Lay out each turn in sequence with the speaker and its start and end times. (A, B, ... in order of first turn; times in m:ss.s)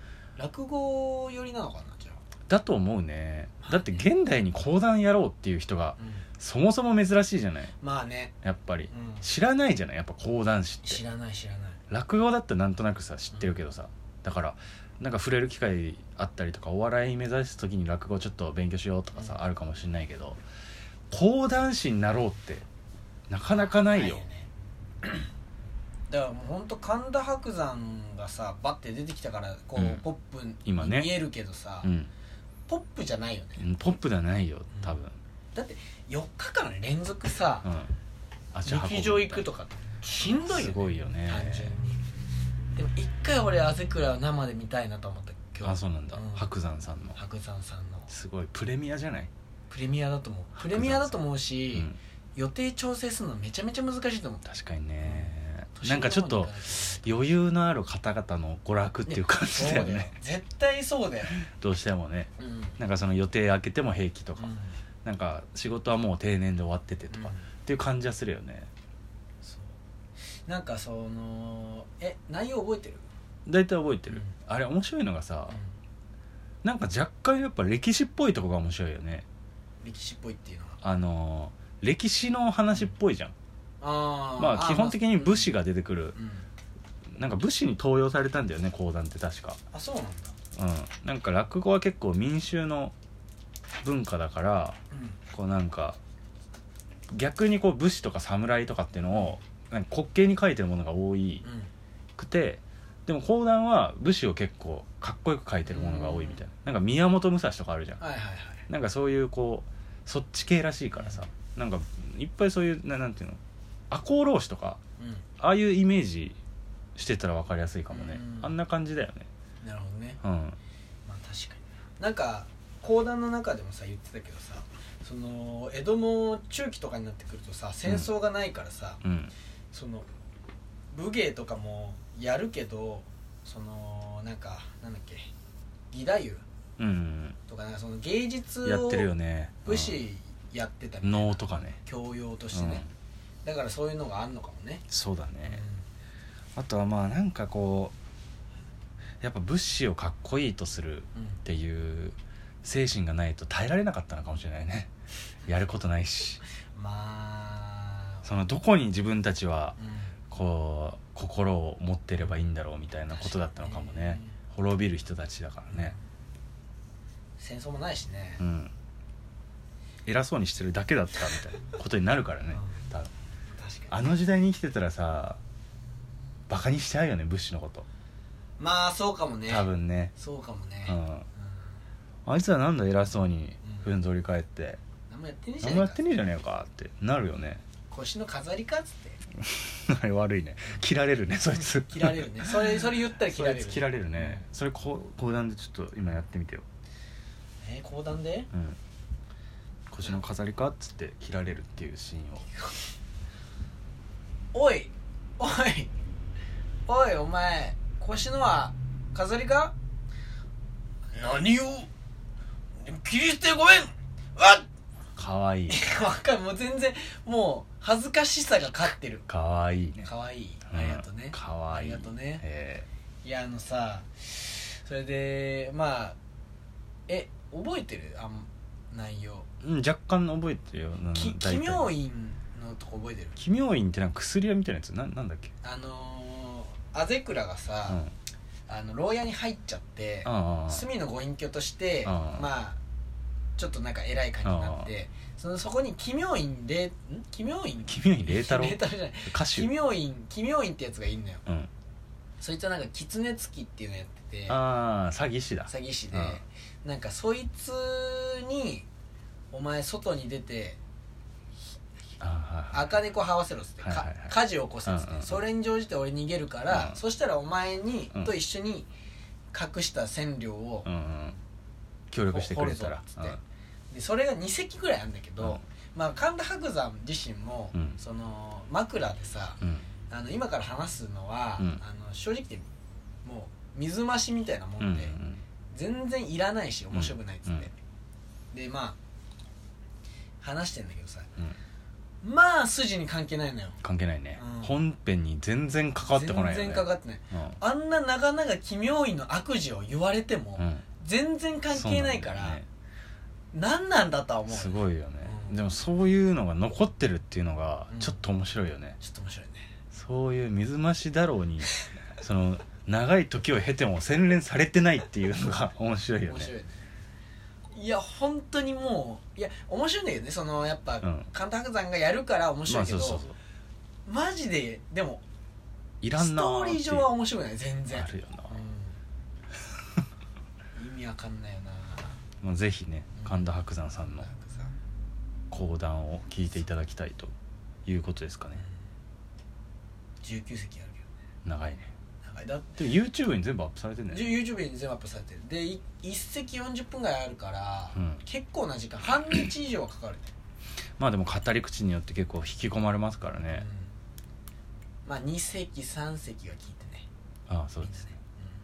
0:00.4-0:02.2 A
0:02.5-0:07.7 B
0:03.6-0:04.1 A
0:06.0-0:06.2 A
0:07.8-0:08.3 A
0:08.4-0:11.0 B
0:08.9-0:09.3 A
0:10.8-0:11.8 A
0:11.9-0:20.4 B
0:19.1-0:19.4 A
0:21.1-0:22.6 B
0:23.3-0:24.2 B
0:23.4-0:24.5 A
0:25.0-0:25.3 A
0:26.1-0:31.9 A
0:29.8-0:30.0 B
0:30.6-0:31.1 B
0:31.8-0:32.1 B
0:32.7-0:33.6 A
0:33.6-0:35.2 B
0:34.7-0:35.0 A
0:35.5-0:37.7 A
0:37.6-0:37.9 B
0:38.5-0:39.4 B
0:38.6-0:42.0 A
0:40.4-0:41.8 B
0:42.7-0:46.4 A
0:45.6-0:47.2 B
0:47.1-0:48.1 A
0:48.1-0:49.3 B
0:49.7-0:54.4 A
0:50.6-0:51.2 B
0:54.4-1:00.1 B
0:55.0-0:57.2 A
0:59.1-1:01.3 A
1:01.3-1:04.5 B
1:02.4-1:02.8 A
1:04.4-1:04.8 A
1:05.0-1:08.7 B
1:07.1-1:07.5 A
1:09.4-1:09.8 A
1:10.4-1:13.1 A
1:13.4-1:15.6 B
1:14.1-1:14.3 A
1:15.5-1:15.7 A
1:16.6-1:19.2 B
1:19.8-1:20.8 A
1:20.8-1:23.3 B
1:23.8-1:25.5 A
1:24.4-1:26.2 B
1:26.1-1:26.5 A
1:27.1-1:29.6 B
1:29.7-1:30.3 A
1:30.5-1:32.9 B
1:33.8-1:34.8 B
1:34.9-1:35.2 A
1:35.3-1:36.0 B
1:37.1-1:41.4 B
1:41.4-1:41.7 A
1:42.2-1:48.0 B
1:45.6-1:46.4 A
1:48.0-1:48.6 A
1:48.7-1:53.4 B
1:51.0-1:51.2 A
1:53.9-1:54.8 B
1:55.0-1:55.2 A
1:55.4-1:56.4 B
1:57.0-1:59.3 B
1:57.9-1:58.5 A
1:59.6-2:00.2 A
2:00.2-2:00.6 B
2:01.0-2:09.0 A
2:09.0-2:09.3 B
2:09.7-2:10.1 A
2:10.9-2:15.3 A
2:15.9-2:16.4 A
2:16.8-2:17.4 B
2:17.4-2:19.1 A
2:18.6-2:20.0 B
2:19.6-2:22.8 A
2:21.0-2:21.8 B
2:22.5-2:22.9 B
2:23.4-2:24.8 A
2:24.9-2:25.6 B
2:25.4-2:25.8 A
2:26.6-2:27.9 B
2:29.2-2:34.9 B
2:35.4-2:36.4 B
2:36.7-2:38.4 A
2:38.2-2:39.8 B
2:39.8-2:40.2 A
2:40.3-2:45.9 B
2:43.1-2:44.4 A
2:45.7-2:46.0 A
2:47.4-2:48.4 A
2:48.4-2:48.7 B
2:50.0-2:53.1 B
2:52.5-2:52.9 A
2:53.5-2:54.1 A
2:53.9-2:55.4 B
2:56.5-2:57.8 B
2:58.6-3:01.7 A
2:59.5-3:00.1 B
3:00.9-3:01.2 B
3:02.2-3:04.8 B
3:03.6-3:03.9 A
3:05.1-3:06.1 A
3:05.6-3:07.6 B
3:07.9-3:09.2 A
3:09.4-3:12.6 B
3:11.5-3:14.4 A
3:13.3-3:16.6 B
3:17.6-3:18.5 A
3:18.5-3:18.8 B
3:19.9-3:22.5 B
3:22.5-3:22.8 A
3:24.5-3:25.9 A
3:26.9-3:29.7 A
3:31.1-3:31.9 A
3:32.8-3:34.7 A
3:35.2-3:35.8 B
3:35.7-3:39.2 A
3:39.3-3:40.1 B
3:40.0-3:42.4 A
3:40.7-3:42.9 B
3:43.2-3:46.2 A
3:47.1-3:49.5 A
3:49.6-3:51.9 B
3:51.1-3:53.4 A
3:53.4-3:55.5 B
3:55.6-3:58.0 A
3:57.9-3:58.1 B
3:58.7-4:02.8 A
4:00.2-4:00.8 B
4:02.0-4:02.5 B
4:03.6-4:11.4 A
4:04.4-4:04.9 B
4:07.8-4:09.7 B
4:12.4-4:14.6 A
4:14.5-4:16.4 B
4:15.7-4:18.9 A
4:19.5-4:20.8 A
4:22.2-4:23.0 B
4:22.7-4:28.9 A
4:23.8-4:25.4 B
4:26.7-4:27.0 B
4:29.5-4:30.9 A
4:30.8-4:31.4 B
4:32.1-4:33.4 B
4:32.3-4:33.4 A
4:33.9-4:42.7 A
4:39.6-4:39.8 B
4:43.2-4:45.2 A
4:44.8-4:45.4 B
4:45.7-4:47.7 A
4:46.9-4:47.7 B
4:48.5-4:49.0 A
4:50.4-4:51.3 A
4:52.2-4:53.8 A
4:53.8-4:57.6 B
4:54.4-4:54.8 A
4:56.0-5:02.6 A
5:00.6-5:00.8 B
5:01.7-5:02.7 B
5:03.5-5:05.7 A
5:04.5-5:09.0 B
5:07.9-5:08.2 A
5:09.0-5:09.7 A
5:09.9-5:16.5 B
5:16.2-5:16.8 A
5:17.7-5:23.2 A
5:21.0-5:21.3 B
5:22.7-5:23.4 B
5:24.1-5:25.2 A
5:26.0-5:27.1 B
5:26.2-5:29.0 A
5:27.9-5:28.6 B
5:30.7-5:32.2 A
5:32.4-5:34.3 B
5:33.2-5:33.5 A
5:34.2-5:34.7 A
5:35.5-5:37.3 B
5:37.8-5:38.6 B
5:40.2-5:41.0 A
5:41.4-5:41.9 B
5:42.2-5:42.8 A
5:42.8-5:44.3 B
5:44.1-5:50.3 A
5:47.9-5:48.2 B
5:51.0-5:53.7 B
5:53.4-5:53.9 A
5:55.0-5:57.1 A
5:57.5-5:58.1 B
5:57.8-5:58.4 A